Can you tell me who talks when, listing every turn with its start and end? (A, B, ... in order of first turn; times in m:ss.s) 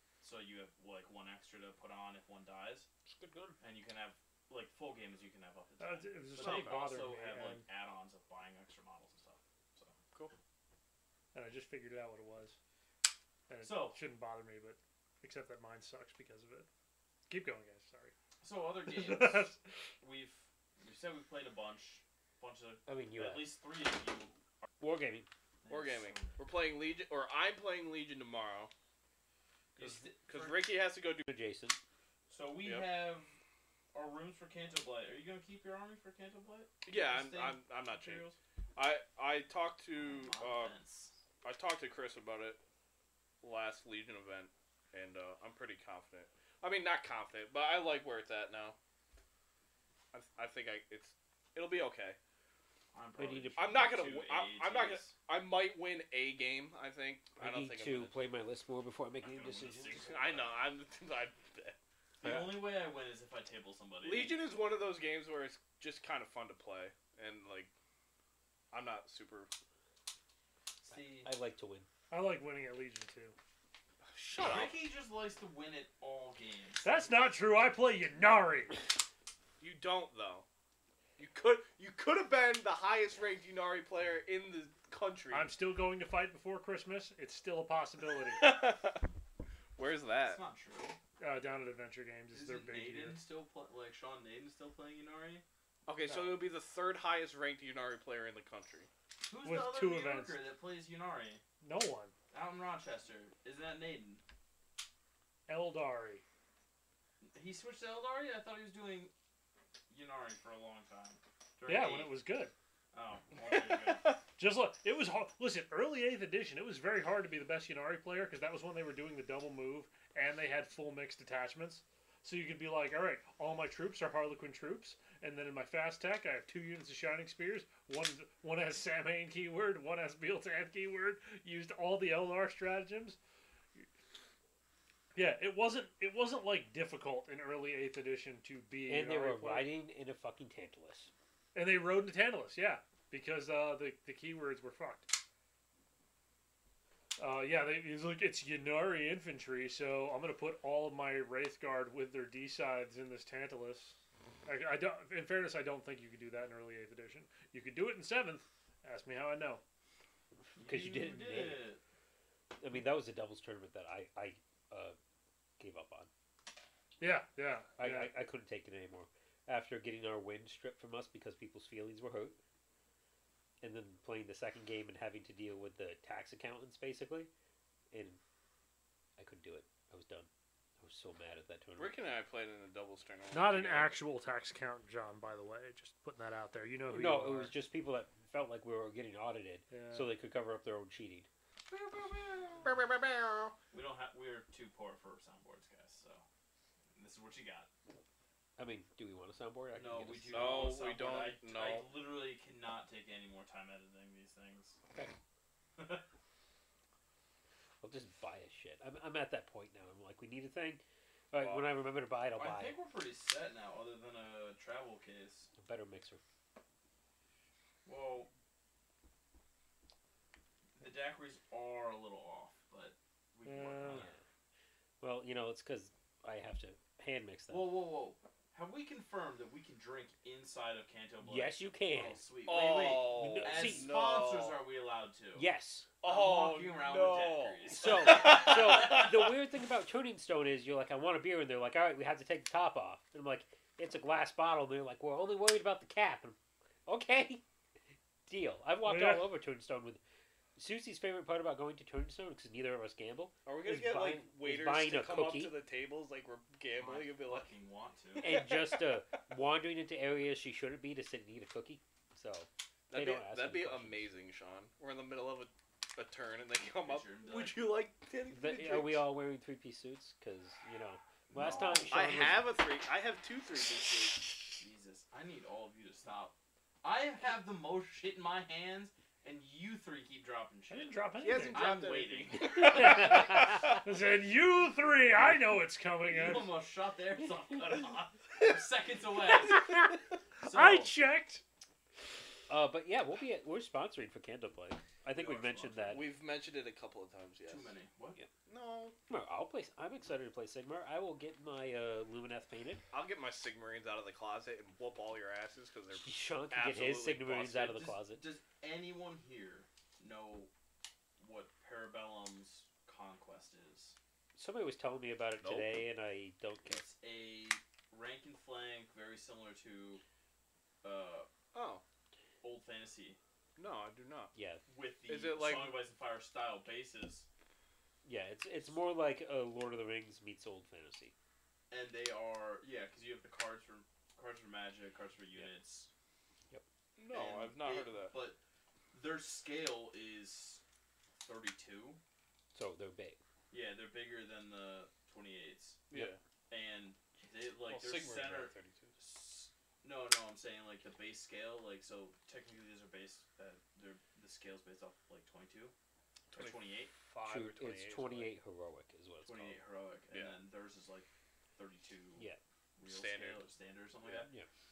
0:00.2-0:02.9 A
0:03.1-0:03.6 B
0:03.6-0:10.0 A
0:05.8-0:07.6 C
0:06.4-0:06.9 B
0:11.3-0:12.6 C
0:13.5-0:16.7 C
0:13.6-0:14.0 A
0:17.3-0:18.1 C
0:18.4-0:24.3 A
0:18.9-0:19.6 C
0:22.9-0:23.5 D
0:24.8-0:25.3 D
0:25.6-0:26.4 A
0:25.7-0:28.7 B
0:29.8-0:30.7 A
0:29.8-0:31.3 B
0:31.3-0:31.8 D
0:32.3-0:33.4 A
0:33.9-0:38.4 A
0:36.8-0:40.8 B
0:40.0-0:41.2 A
0:41.4-0:42.6 B
0:43.4-0:48.8 B
0:50.1-0:52.2 B
0:52.9-0:55.1 A
0:53.2-0:53.9 D
0:53.6-0:58.2 B
0:57.4-1:00.0 D
0:59.2-1:00.6 A
0:59.9-1:01.8 B
1:02.2-1:04.4 A
1:02.2-1:02.5 D
1:04.0-1:07.7 B
1:08.7-1:09.5 B
1:10.8-1:11.3 A
1:10.9-1:11.9 D
1:12.1-1:13.4 C
1:14.0-1:14.8 B
1:14.4-1:17.1 A
1:16.8-1:18.9 C
1:19.6-1:20.5 B
1:21.2-1:25.5 B
1:25.3-1:28.4 C
1:28.3-1:29.1 B
1:29.8-1:30.4 B
1:30.2-1:31.0 A
1:31.2-1:33.2 C
1:32.3-1:35.4 A
1:35.9-1:38.9 B
1:36.1-1:36.4 C
1:39.3-1:41.4 A
1:39.4-1:40.4 C
1:41.6-1:42.1 C
1:42.3-1:44.2 A
1:45.5-1:46.2 C
1:47.2-1:49.1 A
1:49.9-1:52.2 A
1:51.7-1:52.5 C
1:52.9-1:54.1 A
1:53.5-1:54.2 B
1:54.4-2:13.2 C
2:15.1-2:19.7 C
2:18.9-2:21.1 D
2:21.5-2:25.1 C
2:27.2-2:39.6 C
2:40.6-2:41.6 D
2:40.6-2:41.8 A
2:42.6-2:45.0 D
2:45.6-2:46.1 D
2:47.0-2:48.2 C
2:47.8-2:52.4 D
2:53.6-2:57.3 D
2:57.9-2:58.2 D
2:59.2-3:02.0 D
3:01.8-3:04.0 B
3:03.3-3:07.6 C
3:06.9-3:11.3 D
3:09.7-3:10.1 C
3:11.7-3:12.8 A
3:12.6-3:13.6 B
3:13.7-3:16.2 A
3:17.0-3:17.7 A
3:18.6-3:20.8 D
3:19.7-3:24.8 A
3:20.3-3:21.9 B
3:25.8-3:26.0 A
3:27.8-3:32.8 D
3:31.4-3:31.7 B
3:32.4-3:35.5 A
3:35.6-3:36.2 D
3:37.8-3:38.3 A
3:40.8-3:44.2 A
3:43.5-3:44.1 C
3:43.9-3:44.2 D
3:45.0-3:47.7 D
3:47.5-3:55.5 A
3:51.2-3:52.3 D
3:52.5-3:54.6 B
3:53.1-3:53.9 D
3:55.4-3:55.9 D
3:56.0-3:59.1 B
3:56.0-3:59.0 A
3:57.7-4:07.4 D
4:08.3-4:10.0 D
4:08.8-4:09.3 C
4:10.6-4:15.6 D
4:13.5-4:17.5 B
4:16.8-4:18.4 A
4:18.2-4:24.1 D
4:18.2-4:19.2 B
4:22.9-4:29.1 B
4:26.8-4:27.7 A
4:28.3-4:32.5 D
4:31.3-4:31.9 A
4:31.4-4:34.4 B
4:34.6-4:43.1 A
4:40.7-4:41.7 C
4:41.2-4:43.7 B
4:42.6-4:43.7 D
4:43.8-4:46.6 C
4:46.0-4:49.9 A
4:49.4-4:51.4 C
4:50.4-4:51.0 A
4:52.5-4:56.0 D
4:55.1-4:56.1 A
4:55.9-4:57.7 B
4:57.5-4:58.2 A
4:58.5-4:59.0 B
4:59.1-5:02.8 D
5:02.9-5:07.8 B
5:05.9-5:08.2 D
5:07.5-5:10.5 A
5:11.2-5:14.0 A
5:14.4-5:16.8 D
5:15.4-5:15.7 B
5:16.6-5:20.0 A
5:20.8-5:21.3 A
5:21.5-5:21.8 B
5:22.4-5:23.2 A
5:23.6-5:24.3 B
5:24.3-5:24.6 D
5:24.7-5:27.3 A
5:25.1-5:25.8 B
5:28.0-5:31.1 D
5:31.7-5:35.9 A
5:37.0-5:38.2 B
5:37.1-5:38.4 A
5:38.9-5:40.6 A
5:41.2-5:42.0 A
5:42.5-5:43.2 D
5:43.5-5:45.8 A
5:45.9-5:46.2 B
5:46.5-5:55.7 A
5:47.6-5:48.9 B
5:56.3-5:56.9 A
5:56.3-5:58.4 B
5:57.2-5:59.6 D
5:59.2-6:04.3 A
6:00.1-6:00.4 B
6:02.8-6:03.4 B
6:04.0-6:04.5 D